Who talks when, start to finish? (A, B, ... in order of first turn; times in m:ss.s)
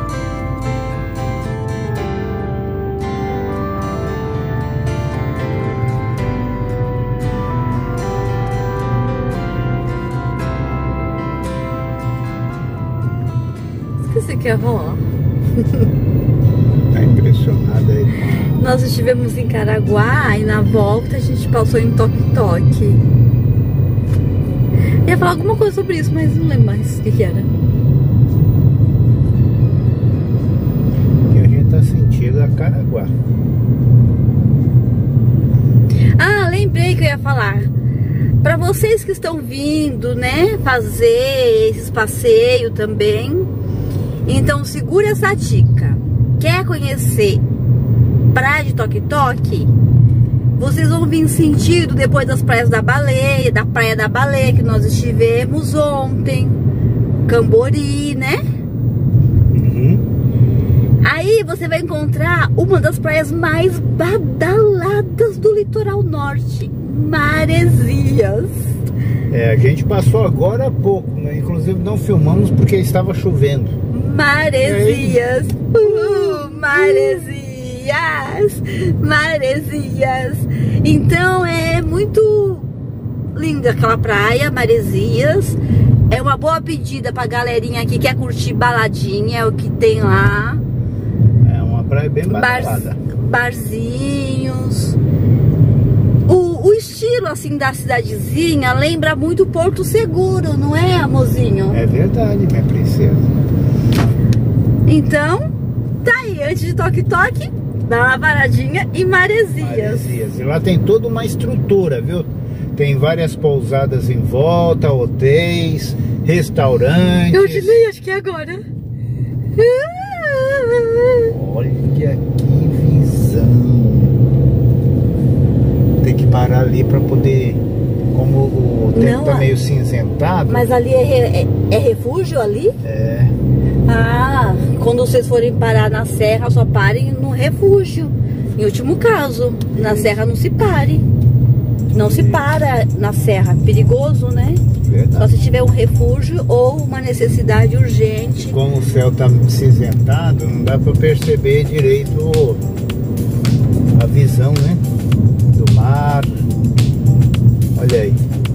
0:14.0-0:15.0 A
0:15.6-0:15.9 A
0:16.9-0:18.5 B
0:18.5-0:23.0 A
0:25.0-0:27.5 A
0:31.3-0:33.1 B
0:36.2-0:37.7 A
0:38.4-0:43.5 A
0:44.2-0:47.4 A
0:48.3-0:49.7 A
0:50.6-0:56.6 A
0:57.2-0:58.4 A
0:59.5-1:00.0 B
1:01.0-1:08.7 A
1:09.3-1:13.7 B
1:13.9-1:22.7 A
1:14.6-1:15.2 B
1:15.8-1:16.7 B
1:23.3-1:25.6 A
1:26.1-1:30.6 A
1:31.4-1:33.0 B
1:32.3-1:35.0 A
1:36.3-1:41.8 A
1:41.7-1:43.3 B
1:44.8-1:45.4 A
1:46.0-1:50.2 A
1:49.6-1:57.8 B
1:57.3-1:58.6 A
1:59.6-2:01.3 A
2:01.2-2:04.2 B
2:06.0-2:10.7 B
2:08.9-2:09.5 A
2:10.5-2:12.7 A
2:12.8-2:13.3 B
2:13.8-2:21.0 A
2:19.7-2:20.1 B
2:21.9-2:24.6 A
2:21.9-2:22.4 B
2:24.8-2:25.3 B
2:25.2-2:28.6 A
2:28.4-2:32.6 B
2:33.9-2:34.8 B
2:35.5-2:36.5 B
2:37.7-2:38.2 B